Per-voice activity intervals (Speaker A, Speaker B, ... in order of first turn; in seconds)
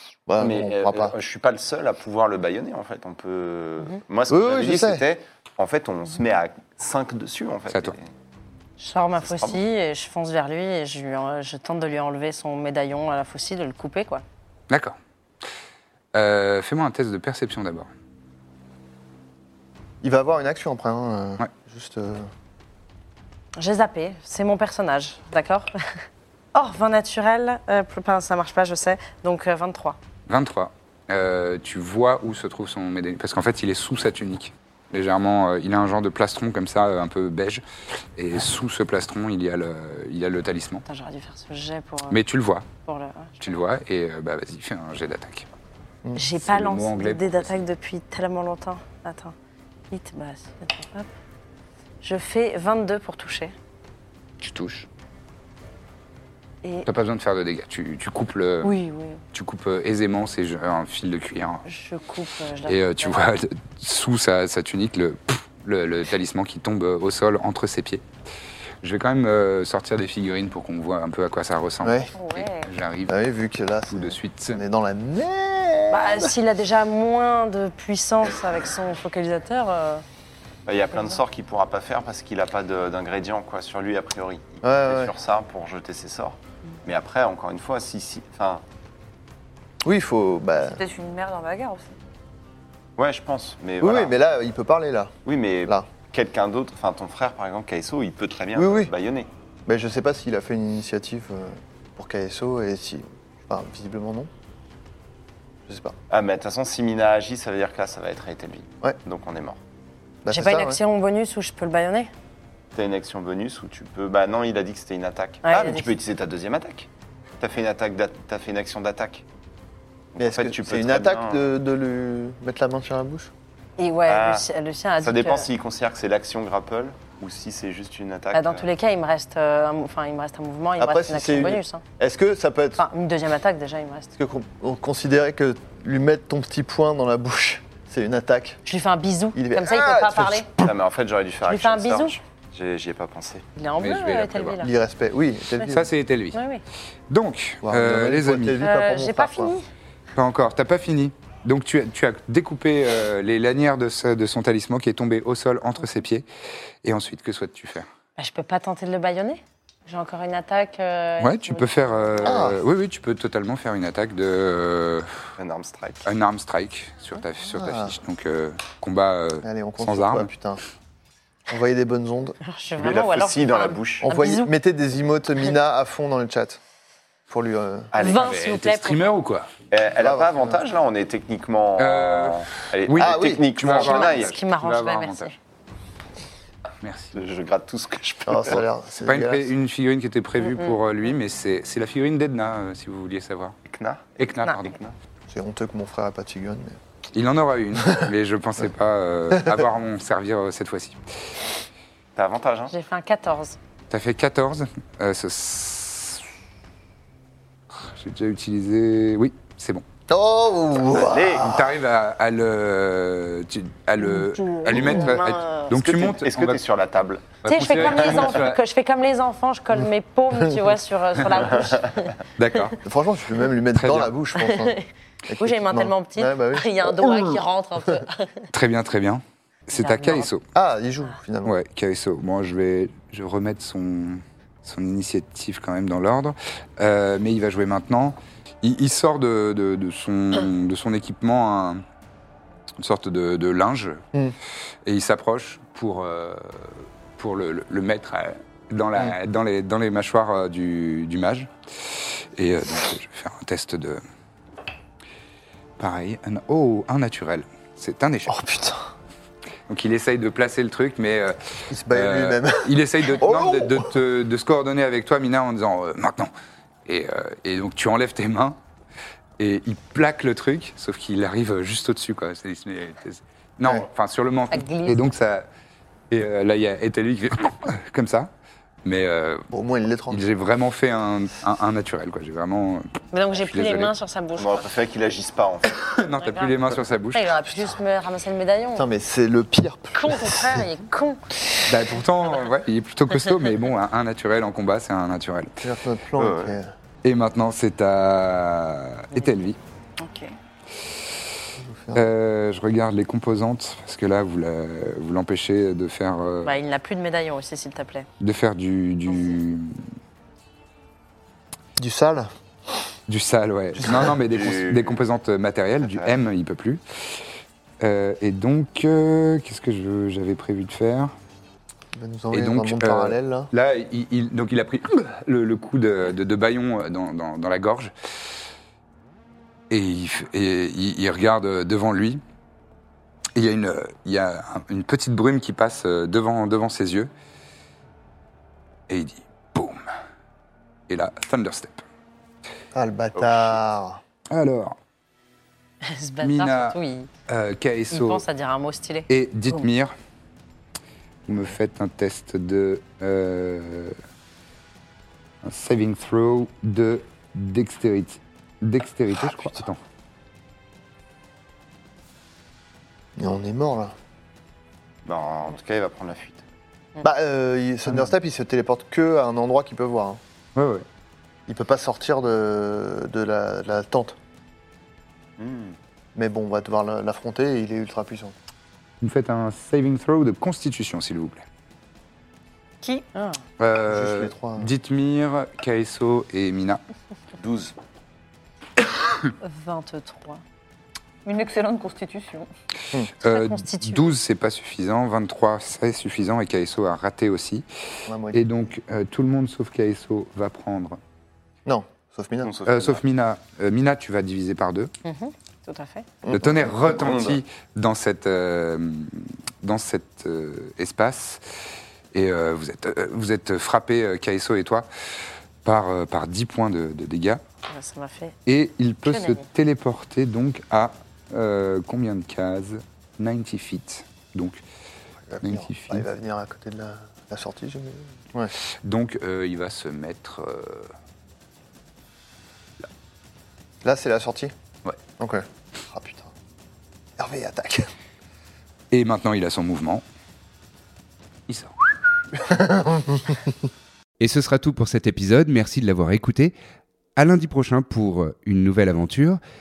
Speaker A: 0.3-1.1, 4.3-5.0, 20.0-22.3, 71.8-72.1, 73.1-76.3, 84.6-85.1, 89.8-90.8, 93.8-95.1, 98.5-98.9, 99.7-104.3, 105.7-106.0, 110.2-110.8, 120.2-123.3, 130.8-132.8, 134.2-138.6, 139.3-140.7, 144.6-145.9, 147.6-149.5, 162.2-162.6, 167.5-167.9, 169.4-170.6, 171.5-172.4, 174.1-176.6, 177.3-177.9, 180.0-180.6, 183.0-183.5, 188.3-189.5, 195.3-196.8, 199.3-199.7, 210.1-211.7, 219.8-220.6, 222.8-227.4, 230.5-231.6, 258.3-258.9, 261.7-263.9, 279.5-280.2, 288.8-290.7, 295.6-296.8, 301.6-302.1, 311.8-312.3, 321.9-323.5, 342.7-344.0, 363.2-363.9, 367.0-370.2, 371.5-374.2, 376.1-378.4, 383.9-384.7, 398.1-398.6, 401.6-402.5, 406.2-406.8, 425.2-428.5, 433.8-434.5, 435.2-436.3, 437.2-437.9, 442.3-443.6
Speaker B: 0.4-8.1, 9.2-9.6, 80.7-88.6, 93.0-94.2, 95.2-99.3, 106.1-109.6, 112.7-116.9, 117.4-119.2, 120.2-121.5, 124.1-124.5, 125.0-128.7, 140.6-143.4, 165.4-166.1, 172.8-174.1, 177.9-178.3, 179.7-184.3, 187.1-188.6, 193.7-194.9, 202.2-202.7, 210.9-211.7, 215.7-218.4, 221.4-222.1, 284.4-285.7, 296.2-296.6, 313.8-315.1, 315.8-316.2, 365.1-366.4, 375.4-375.8, 387.4-387.7, 402.4-403.0, 406.9-407.4
Speaker C: 8.8-14.2, 23.6-26.0, 26.5-30.0, 40.9-42.2, 42.9-43.6, 46.1-49.4, 49.9-51.1, 52.0-53.5, 58.6-59.2, 61.6-63.2, 75.9-80.0, 110.3-112.1, 115.4-115.9, 123.8-125.5, 128.3-131.8, 132.8-134.1, 138.7-140.5, 141.5-142.2, 143.6-144.7, 146.3-146.6, 148.6-149.7, 158.2-162.4, 172.4-174.5, 178.0-179.1, 183.8-185.3, 190.5-190.8, 202.7-203.6, 214.0-215.7, 217.4-222.7, 224.4-224.9, 225.4-228.5, 229.7-230.3, 274.5-275.0, 283.1-284.7, 286.2-286.6, 287.1-288.9, 289.9-291.6, 306.4-308.1, 345.9-347.1, 347.9-349.6, 382.8-383.4, 389.4-390.4, 393.2-394.1, 405.0-406.1, 417.7-418.4, 419.1-419.5
Speaker D: 14.7-15.0, 16.1-17.9, 30.3-37.6, 38.2-40.8, 42.1-42.7, 43.4-45.5, 46.4-47.6, 54.4-54.9, 56.9-58.8, 59.3-61.6, 62.6-68.0, 68.8-73.3, 73.9-74.6, 143.8-144.6, 145.6-146.4, 147.1-148.6, 150.2-156.3, 156.8-157.9, 161.2-165.3, 166.1-170.3, 178.0-179.5, 181.8-185.3, 186.8-187.2, 189.1-193.6, 194.2-194.8, 197.1-201.3, 203.9-206.2, 207.7-209.8, 211.4-216.6, 217.4-218.6, 222.4-222.8, 223.8-224.1, 228.5-230.4, 231.4-241.8, 242.8-244.0, 244.8-254.0, 255.8-258.4, 259.7-266.3, 266.9-268.6, 269.4-275.5, 276.1-278.3, 278.9-279.5, 280.1-283.9, 285.7-287.3, 291.7-295.6, 297.0-299.6, 301.9-306.6, 308.2-309.8, 313.1-317.2, 317.8-321.1, 322.3-327.9, 329.7-332.2, 333.4-337.1, 338.9-339.9, 340.9-341.8, 343.2-343.6, 344.3-344.8, 346.2-346.8, 347.3-348.2, 349.1-349.9, 351.3-354.0, 355.4-359.8, 370.6-370.9, 379.0-381.4, 383.6-386.8, 393.2-397.7, 398.3-401.0, 402.7-404.9, 406.3-411.6, 412.1-414.9, 415.6-417.4, 418.5-424.6, 425.4-426.1, 428.8-430.9, 438.9-440.0, 441.5-441.8
Speaker E: 72.1-72.7, 90.6-92.0, 300.0-300.3, 391.2-392.5
Speaker F: 444.2-446.5, 447.2-449.4